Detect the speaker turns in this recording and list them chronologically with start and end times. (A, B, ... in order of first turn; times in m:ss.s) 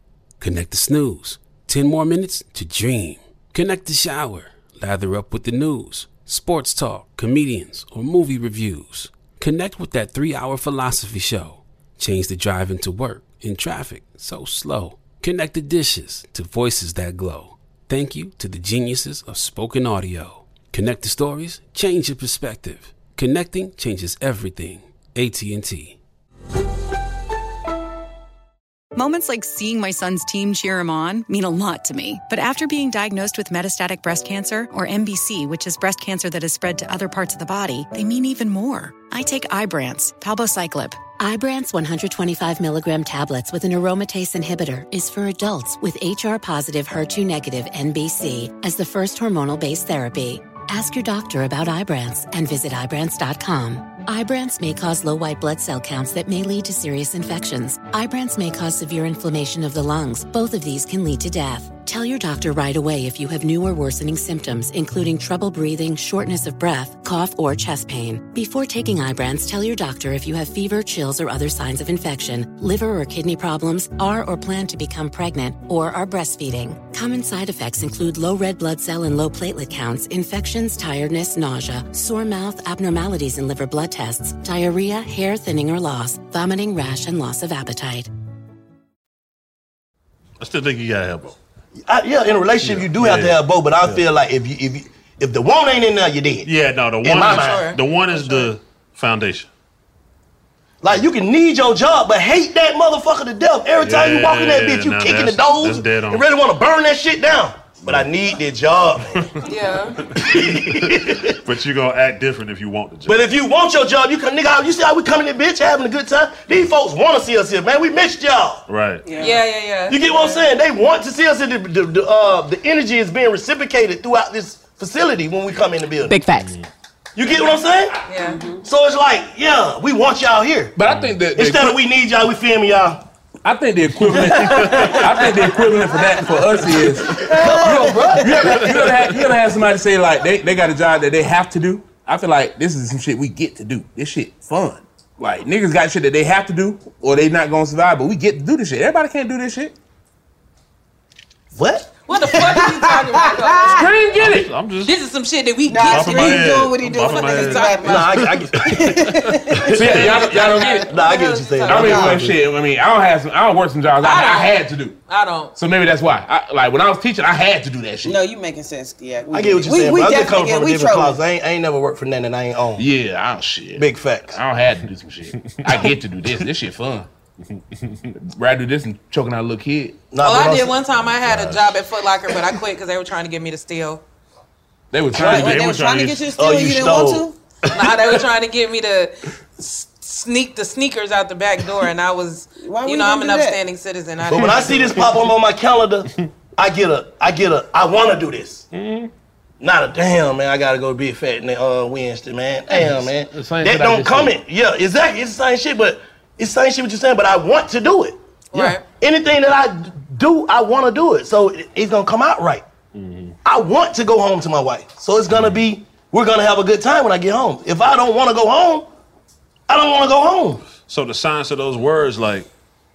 0:00.4-0:26.0 A
0:28.9-0:41.0 B
0:41.2-1:28.1 C
1:30.4-1:31.4 D
1:31.9-1:36.5 E
1:32.6-1:34.0 D
1:36.4-1:39.5 D
1:37.0-1:37.6 E
1:37.1-1:38.5 F
1:40.8-1:49.4 E
1:43.8-1:46.2 D
1:47.8-1:48.1 D
1:49.4-1:50.0 F
1:50.1-1:53.3 D
1:50.1-1:51.4 E
1:53.1-1:58.6 E
1:58.7-1:59.1 D
1:59.0-1:59.4 G
1:59.2-2:00.5 F
1:59.9-2:06.2 E
2:06.3-2:06.7 D
2:07.2-2:08.0 E
2:08.0-2:08.4 F
2:08.2-2:08.6 G
2:08.6-2:10.7 E
2:10.8-2:11.8 H
2:10.9-2:11.1 D
2:11.3-2:13.0 E
2:13.4-2:29.7 H
2:14.0-2:15.0 D
2:17.2-2:18.6 E
2:17.3-2:18.1 G
2:18.3-2:19.1 D
2:31.5-2:32.5 E
2:32.0-2:33.9 F
2:32.4-2:33.8 G
2:33.8-2:34.5 H
2:34.1-2:34.9 D
2:34.8-2:36.5 F
2:35.7-2:39.9 G
2:35.8-2:39.4 D
2:37.2-2:37.9 F
2:37.8-2:39.0 E
2:39.6-2:40.1 E
2:39.7-2:40.8 H
2:40.0-2:42.1 F
2:40.9-2:42.4 E
2:41.7-2:45.0 H
2:41.7-2:42.2 G
2:44.0-2:45.5 F
2:45.6-2:48.2 H
2:48.0-2:51.2 G
2:49.3-2:52.8 E
2:52.8-2:57.1 H
2:53.8-2:54.4 E
2:55.4-2:55.9 D
2:57.5-2:58.1 D
2:58.2-3:00.0 H
3:00.1-3:00.8 E
3:00.2-3:04.0 F
3:00.9-3:01.8 D
3:04.9-3:05.6 H
3:05.1-3:06.2 D
3:05.1-3:07.4 G
3:06.4-3:07.2 E
3:07.7-3:14.9 F
3:12.6-3:13.6 G
3:14.2-3:18.6 E
3:14.3-3:15.3 D
3:18.7-3:19.1 D
3:19.6-3:28.2 E
3:22.7-3:24.4 H
3:28.5-3:28.8 F
3:29.0-3:32.6 E
3:32.9-3:33.4 D
3:33.4-3:38.9 E
3:35.3-3:35.6 D
3:39.7-3:40.6 E
3:40.8-3:42.5 D